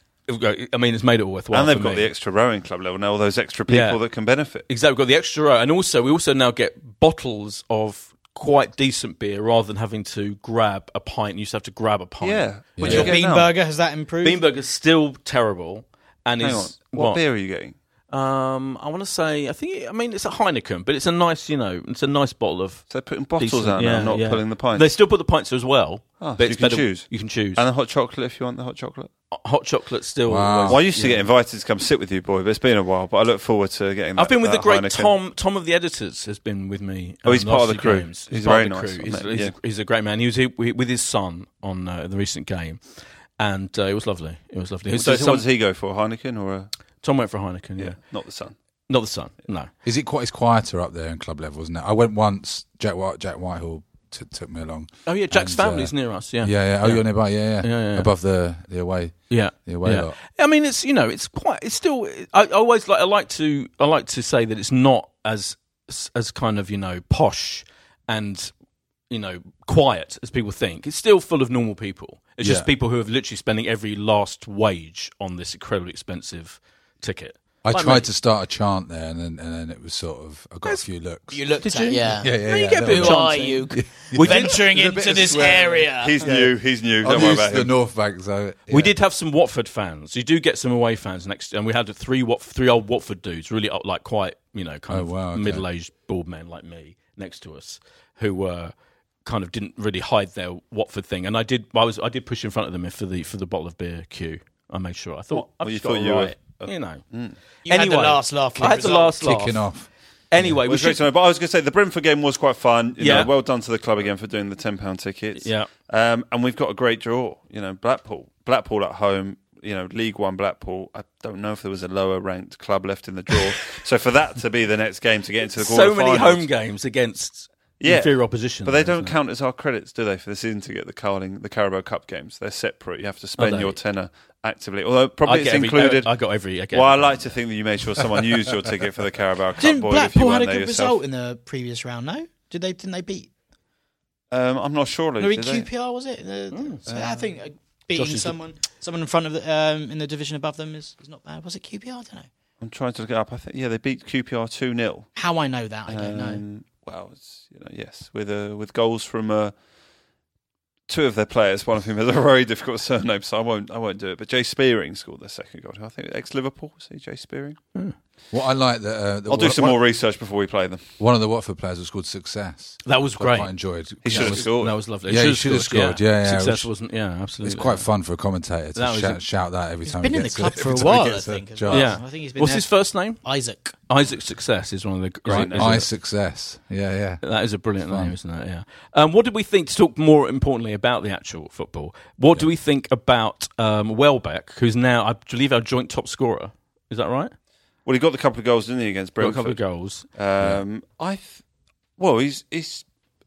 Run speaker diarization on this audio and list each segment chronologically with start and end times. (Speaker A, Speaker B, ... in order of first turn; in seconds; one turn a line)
Speaker A: 0.3-2.1
Speaker B: 1.5-4.7
Speaker A: 3.7-4.0
Speaker A: 4.7-13.1
Speaker B: 12.2-13.5
Speaker C: 12.8-13.1
Speaker D: 12.8-14.4
Speaker A: 14.2-17.3
Speaker B: 16.4-17.8
Speaker A: 18.1-27.6
Speaker B: 22.9-24.9
Speaker B: 26.2-29.1
Speaker A: 29.3-31.3
Speaker C: 30.3-30.9
Speaker B: 30.7-35.1
Speaker A: 34.1-45.5
Speaker B: 37.2-39.5
Speaker B: 44.9-46.9
Speaker A: 47.0-48.0
Speaker B: 47.8-48.6
Speaker A: 48.9-49.7
Speaker C: 49.8-60.1
Speaker A: 55.1-58.1
Speaker A: 59.3-68.5
Speaker A: 69.1-78.1
Speaker C: 72.4-72.7
Speaker C: 77.6-89.0
Speaker D: 81.3-86.3
Speaker A: 81.6-84.6
Speaker B: 86.0-87.7
Speaker A: 88.7-107.0
Speaker C: 94.9-95.7
Speaker B: 105.3-107.4
Speaker D: 107.6-109.6
Speaker A: 107.7-109.7
Speaker C: 108.6-110.6
Speaker A: 110.3-111.0
Speaker B: 110.7-126.5
Speaker A: 113.0-113.3
Speaker A: 115.4-115.7
Speaker A: 125.5-129.2
Speaker B: 127.8-141.0
Speaker A: 133.4-133.8
Speaker A: 135.2-137.5
Speaker D: 139.6-143.3
Speaker B: 144.3-145.7
Speaker D: 145.2-152.3
Speaker A: 146.5-146.8
Speaker B: 146.9-147.2
Speaker A: 147.9-148.4
Speaker B: 152.6-155.2
Speaker D: 155.2-156.4
Speaker B: 155.9-159.6
Speaker B: 160.9-167.6
Speaker C: 168.3-169.8
Speaker B: 169.3-170.8
Speaker C: 171.0-174.5
Speaker A: 172.8-177.9
Speaker B: 174.0-174.8
Speaker C: 175.1-176.7
Speaker C: 177.4-181.9
Speaker A: 178.8-179.2
Speaker D: 179.8-183.8
Speaker A: 181.7-183.2
Speaker A: 183.9-185.9
Speaker B: 185.2-185.8
Speaker C: 185.3-188.2
Speaker A: 187.2-197.3
Speaker B: 197.8-201.4
Speaker A: 199.2-200.1
Speaker B: 202.0-202.9